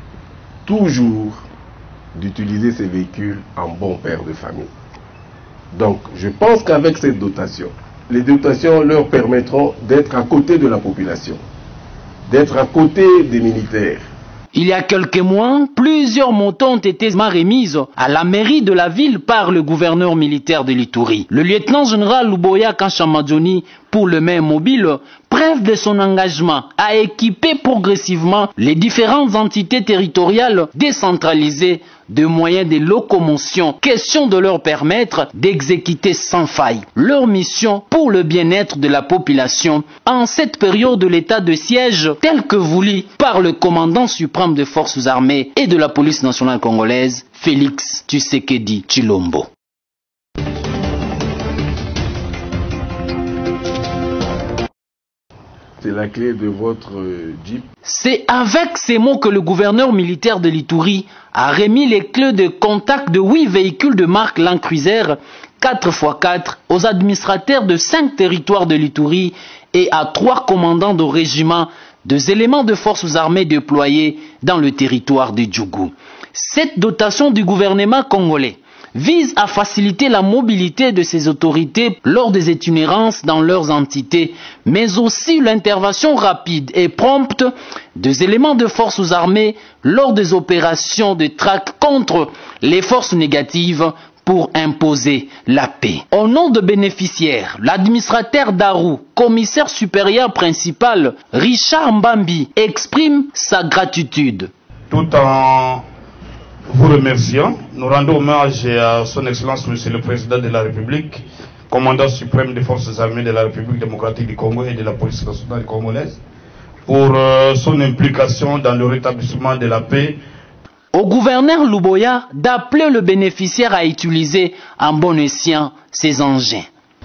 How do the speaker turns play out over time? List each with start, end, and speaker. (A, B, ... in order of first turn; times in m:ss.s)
0:00.6-0:01.4 A
0:02.1-0:04.7 A
0:05.7-0:11.4 A
0:12.3-0:14.0 A
0:14.5-0:49.5 B
0:55.8-0:57.7 A
0:57.8-1:44.5 B
1:44.9-1:45.8 C
1:46.7-1:56.2 C
1:56.8-2:00.2 C
2:00.9-2:06.7 B